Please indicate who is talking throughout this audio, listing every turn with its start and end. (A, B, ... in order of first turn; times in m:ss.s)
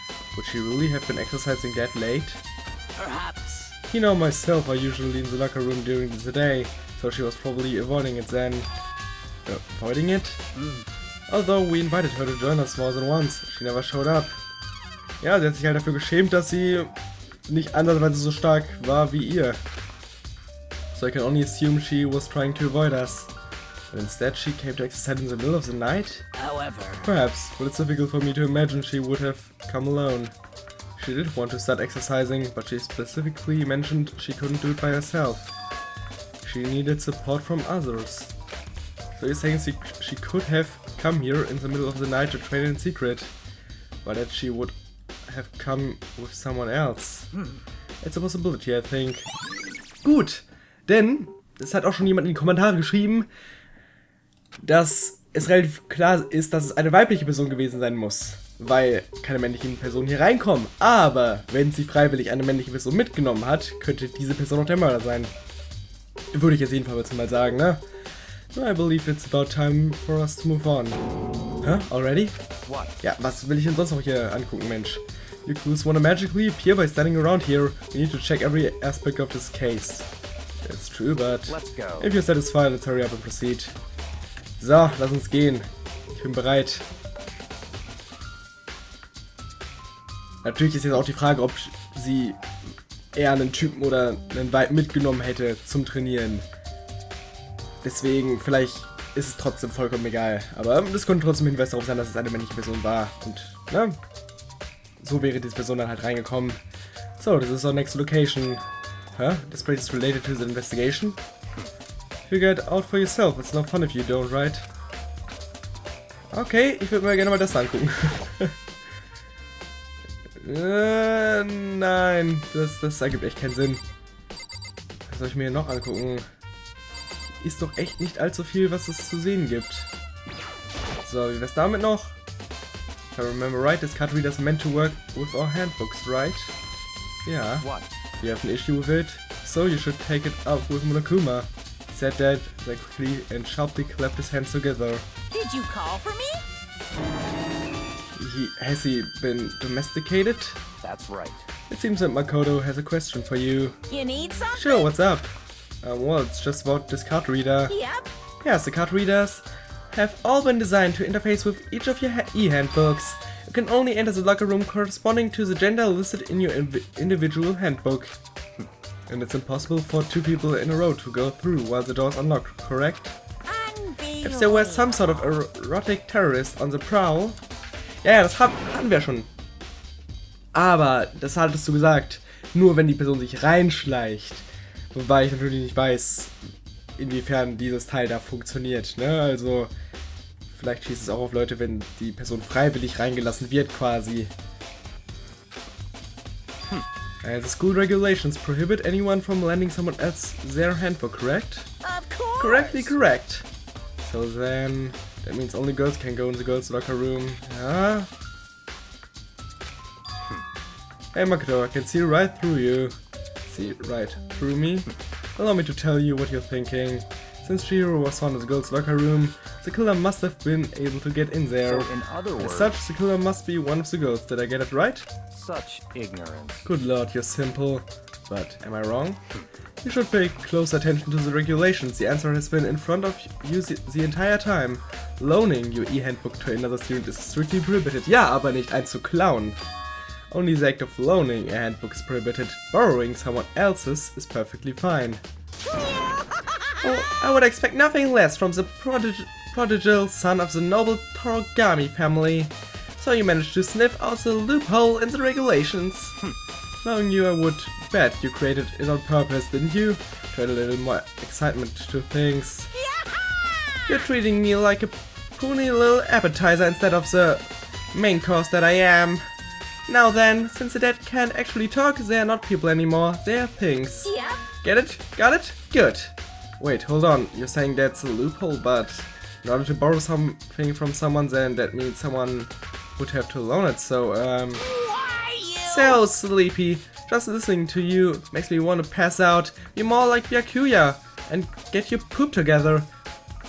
0:00.4-0:02.4 A
0:03.8-0:08.7 A
0:09.5-0:10.4 A
0:11.3-0:14.4 A
0:15.2-0:16.9 A
0:17.5-0:19.6 A
0:20.9-0:23.3 A
0:23.9-0:26.3 A
0:27.0-0:30.3 A
0:31.0-0:35.5 A
0:36.4-0:38.3 A
0:39.2-0:43.3 A
0:44.0-0:44.8 A
0:45.3-0:47.3 A
0:48.0-0:49.3 A
0:50.0-0:53.3 A
0:54.6-1:05.3 A
1:06.3-1:07.8 A
1:08.5-1:11.0 A
1:11.6-1:12.4 A
1:12.7-1:12.9 B
1:13.0-1:20.1 A
1:20.6-1:23.8 A
1:21.5-1:22.1 B
1:24.6-1:26.9 A
1:30.4-1:32.4 A
1:33.1-1:36.5 A
1:37.8-1:44.0 A
1:45.0-1:46.6 A
1:47.2-1:48.6 A
1:49.2-1:51.2 A
1:52.3-1:54.7 A
1:56.3-1:58.6 A
2:00.4-2:03.8 A
2:05.1-2:06.3 A
2:07.4-2:09.9 A
2:11.0-2:12.2 A
2:13.1-2:16.6 A
2:17.2-2:17.7 A
2:17.6-2:17.9 B
2:18.2-2:25.1 A
2:25.3-2:26.4 C
2:28.2-2:30.6 A
2:30.8-2:31.5 B
2:31.7-2:33.8 A
2:33.9-2:34.8 C
2:34.5-2:37.8 A
2:37.7-2:38.1 C
2:38.4-2:48.2 A
2:49.1-2:53.2 A
2:53.5-2:54.9 C
2:54.2-2:57.4 A
2:58.0-2:59.3 A
3:00.5-3:06.4 A
3:07.0-3:09.7 A
3:10.5-3:14.3 A
3:17.2-3:21.7 A
3:21.8-3:22.7 C
3:22.4-3:23.5 A
3:24.0-3:28.1 A
3:31.1-3:45.1 A
3:41.6-3:42.8 B
3:45.3-3:46.7 B
3:46.6-3:49.2 A
3:49.8-3:59.6 A
4:00.3-4:05.2 A
4:06.8-4:16.2 A
4:16.8-4:22.7 A
4:22.7-4:23.9 C
4:23.9-4:29.2 A
4:29.9-4:44.6 A
4:34.0-4:34.4 C
4:44.7-4:46.0 C
4:45.6-4:52.9 A